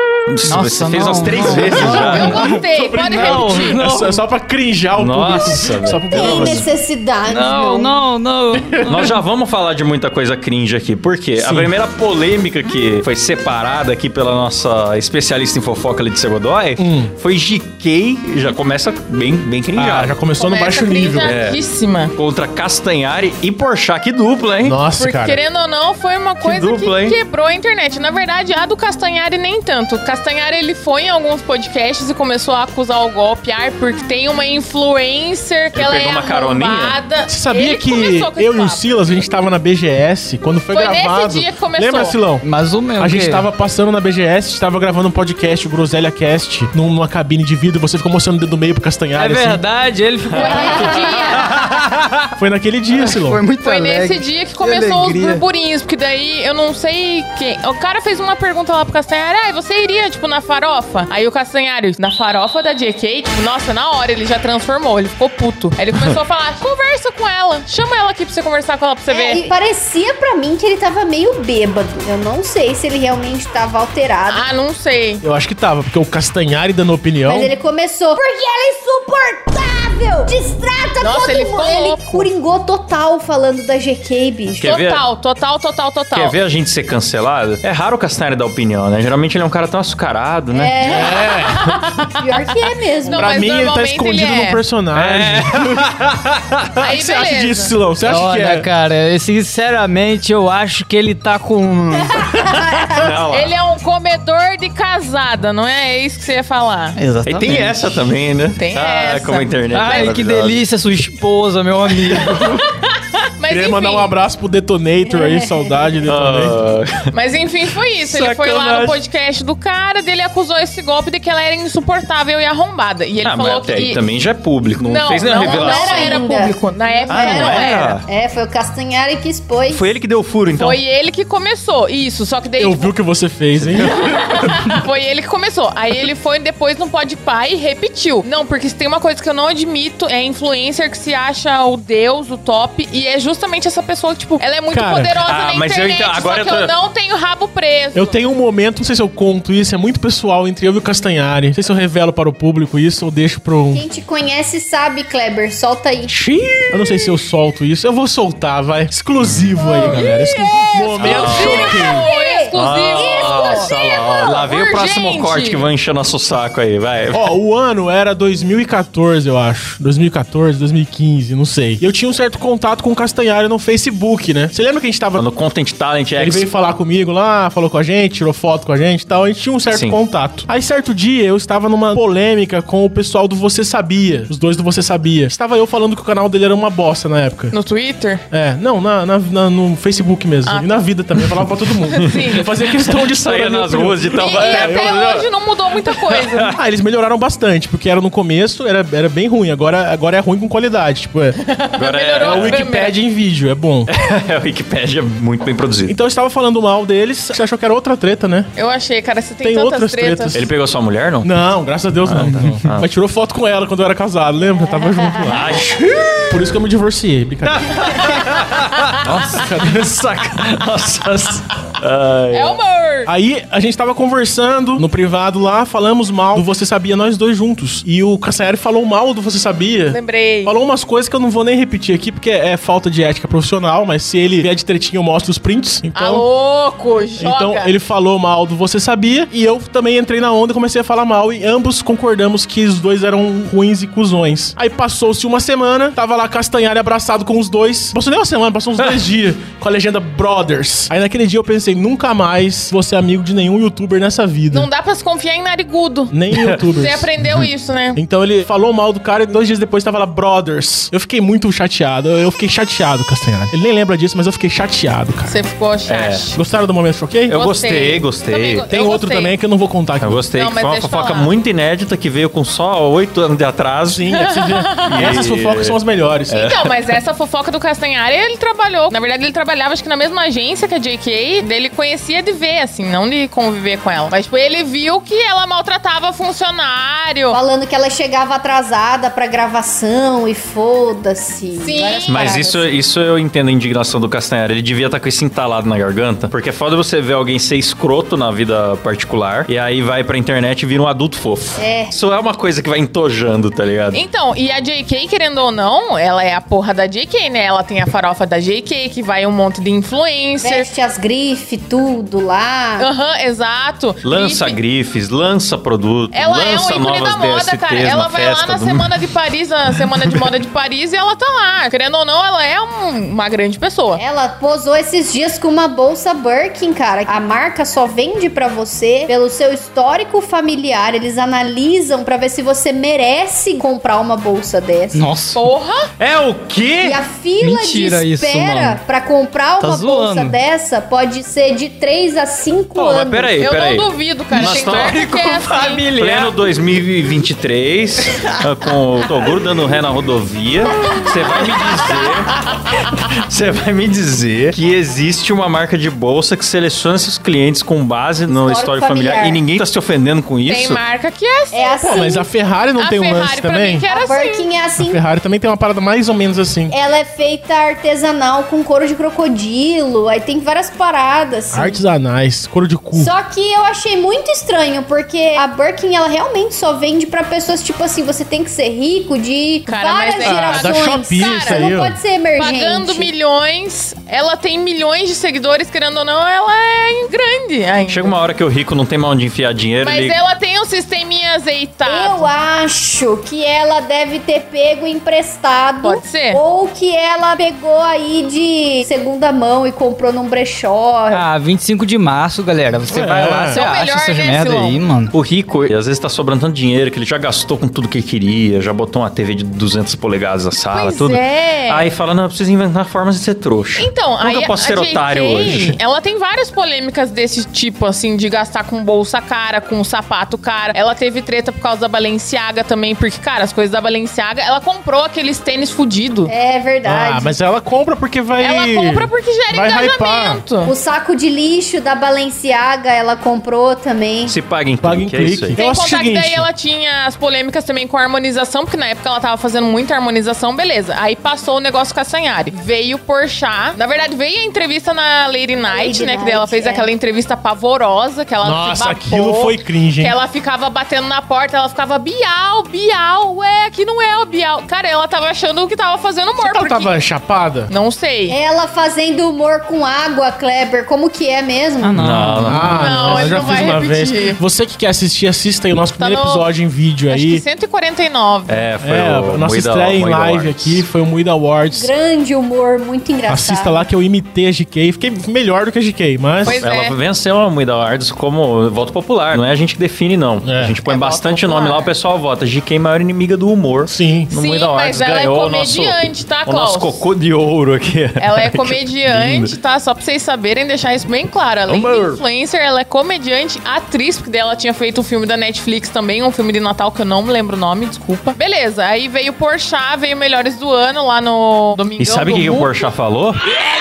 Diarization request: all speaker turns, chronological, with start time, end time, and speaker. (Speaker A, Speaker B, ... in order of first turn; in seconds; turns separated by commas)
Speaker A: 0.3-2.5, Speaker B: 0.4-2.5, Speaker C: 1.4-6.7, Speaker D: 1.7-3.9, Speaker B: 3.1-4.2, Speaker A: 5.0-6.7, Speaker E: 5.2-7.9, Speaker B: 7.3-9.1, Speaker C: 8.7-9.2, Speaker A: 8.8-20.1, Speaker C: 11.4-11.7, Speaker C: 16.8-17.1, Speaker C: 19.8-21.3, Speaker D: 20.4-22.1, Speaker A: 21.2-21.6, Speaker A: 22.1-24.8, Speaker C: 24.6-25.4, Speaker D: 25.0-38.9, Speaker A: 26.4-27.2, Speaker A: 35.7-37.0, Speaker C: 37.3-42.4, Speaker D: 40.7-42.1, Speaker B: 42.4-43.5, Speaker C: 43.0-49.6, Speaker B: 49.1-52.3, Speaker A: 50.3-50.8, Speaker D: 50.4-51.5, Speaker E: 50.4-51.6, Speaker C: 52.4-53.4, Speaker B: 52.9-55.4, Speaker D: 53.6-69.5, Speaker E: 69.1-74.4, Speaker D: 74.3-75.2, Speaker C: 75.2-77.5, Speaker E: 77.2-84.7, Speaker D: 81.0-82.3, Speaker A: 84.6-85.0, Speaker D: 84.6-86.3, Speaker A: 86.1-90.8, Speaker E: 90.5-93.5, Speaker C: 90.9-91.6, Speaker D: 90.9-94.6, Speaker C: 93.1-95.9, Speaker A: 94.9-96.7, Speaker D: 96.8-97.7, Speaker C: 96.8-98.7, Speaker B: 98.0-102.6, Speaker E: 102.2-103.1, Speaker A: 102.9-103.5, Speaker D: 103.3-107.0, Speaker B: 107.0-108.0, Speaker A: 107.2-110.6, Speaker D: 108.6-110.1, Speaker B: 109.7-112.6, Speaker D: 112.1-114.1, Speaker C: 113.5-116.6, Speaker E: 115.0-116.0, Speaker A: 116.0-117.1, Speaker D: 117.1-124.0, Speaker A: 118.1-118.9, Speaker B: 118.3-118.9, Speaker A: 123.2-126.2, Speaker D: 124.8-128.0, Speaker E: 125.3-129.9, Speaker A: 127.1-128.0, Speaker A: 129.7-130.8, Speaker D: 130.5-132.9, Speaker C: 132.6-134.8, Speaker A: 133.6-134.0, Speaker D: 133.9-148.2, Speaker C: 144.7-145.2, Speaker A: 145.3-146.7, Speaker C: 147.9-153.8, Speaker E: 153.7-156.2, Speaker C: 156.1-162.1, Speaker A: 159.2-160.0, Speaker E: 159.6-163.9, Speaker D: 161.0-165.7, Speaker A: 161.0-161.8, Speaker A: 162.5-167.3, Speaker C: 167.1-175.2, Speaker A: 175.2-176.5, Speaker C: 176.2-187.5, Speaker A: 179.7-180.0, Speaker D: 187.5-188.2, Speaker C: 188.3-195.0, Speaker D: 190.4-190.8, Speaker A: 191.2-191.4, Speaker D: 191.9-192.5, Speaker A: 192.0-195.3, Speaker D: 194.1-196.6, Speaker A: 195.9-196.6, Speaker C: 196.5-201.4, Speaker D: 201.4-202.9, Speaker A: 201.8-202.6, Speaker C: 202.2-203.9, Speaker A: 203.9-206.0, Speaker C: 205.9-208.5, Speaker D: 208.6-210.4, Speaker C: 209.4-210.4, Speaker A: 210.3-211.3, Speaker C: 211.2-215.7, Speaker A: 212.0-212.9, Speaker E: 214.7-215.6, Speaker A: 215.2-216.4, Speaker C: 216.3-217.9, Speaker A: 217.4-222.6, Speaker C: 219.0-221.4, Speaker D: 222.3-223.1, Speaker C: 223.1-236.2, Speaker D: 229.9-230.5, Speaker D: 235.9-237.7, Speaker C: 237.2-254.7, Speaker D: 254.5-258.0, Speaker C: 256.1-257.1, Speaker C: 257.9-265.3, Speaker D: 265.2-266.4, Speaker A: 265.9-266.3, Speaker C: 266.4-267.4, Speaker A: 267.3-268.6, Speaker D: 267.3-269.3, Speaker C: 268.7-270.2, Speaker A: 270.0-274.1, Speaker D: 270.3-271.3, Speaker C: 273.9-276.5, Speaker D: 274.1-275.1, Speaker A: 274.8-276.7, Speaker D: 276.4-287.4, Speaker E: 287.3-292.8, Speaker D: 291.6-292.4, Speaker A: 292.1-304.0, Speaker E: 301.6-301.9, Speaker D: 303.9-310.7, Speaker E: 310.4-312.9, Speaker D: 312.8-314.6, Speaker A: 314.0-318.9, Speaker D: 316.1-324.0, Speaker E: 323.9-335.0, Speaker B: 334.9-335.4, Speaker D: 335.3-335.9, Speaker A: 336.0-337.0, Speaker E: 336.8-343.4, Speaker B: 337.4-338.8, Speaker B: 339.6-340.4, Speaker A: 342.8-345.0, Speaker D: 343.4-345.9, Speaker B: 344.3-346.4, Speaker A: 345.9-360.8, Speaker E: 350.7-351.4, Speaker E: 358.3-359.4, Speaker D: 360.5-362.1, Speaker E: 361.5-362.3, Speaker C: 361.9-363.9, Speaker D: 362.8-364.4, Speaker E: 363.9-365.0, Speaker C: 364.8-366.7, Speaker E: 366.7-371.8, Speaker C: 371.5-373.1, Speaker E: 372.9-383.1, Speaker D: 379.7-381.7, Speaker C: 380.2-382.0, Speaker D: 382.4-388.1, Speaker A: 387.9-390.2, Speaker D: 389.8-392.3, Speaker E: 391.8-401.2, Speaker D: 395.8-396.4, Speaker B: 401.1-405.1, Speaker C: 402.9-403.6, Speaker D: 403.5-404.8, Speaker A: 405.1-415.8, Speaker D: 410.7-411.9, Speaker D: 413.8-426.3, Speaker E: 426.3-427.3, Speaker C: 426.8-430.4, Speaker D: 428.4-430.7, Speaker E: 430.6-434.3, Speaker A: 434.2-435.6, Speaker C: 434.8-436.5, Speaker D: 435.6-456.9, Speaker E: 445.6-446.9, Speaker C: 448.4-450.1, Speaker C: 456.4-457.7, Speaker D: 457.7-458.4, Speaker E: 458.3-462.0, Speaker B: 461.8-463.7, Speaker A: 462.0-462.9, Speaker C: 462.5-467.4, Speaker D: 462.7-464.4, Speaker D: 466.0-466.5, Speaker D: 467.1-468.6, Speaker A: 468.5-470.8, Speaker C: 468.8-471.9, Speaker E: 471.7-473.8, Speaker C: 473.3-476.6, Speaker D: 476.4-476.9, Speaker A: 476.4-489.5, Speaker C: 480.4-480.8, Speaker D: 480.9-481.9, Speaker C: 483.9-484.3, Speaker D: 484.3-487.0, Speaker D: 488.2-502.9, Speaker A: 491.7-492.2, Speaker A: 502.0-503.4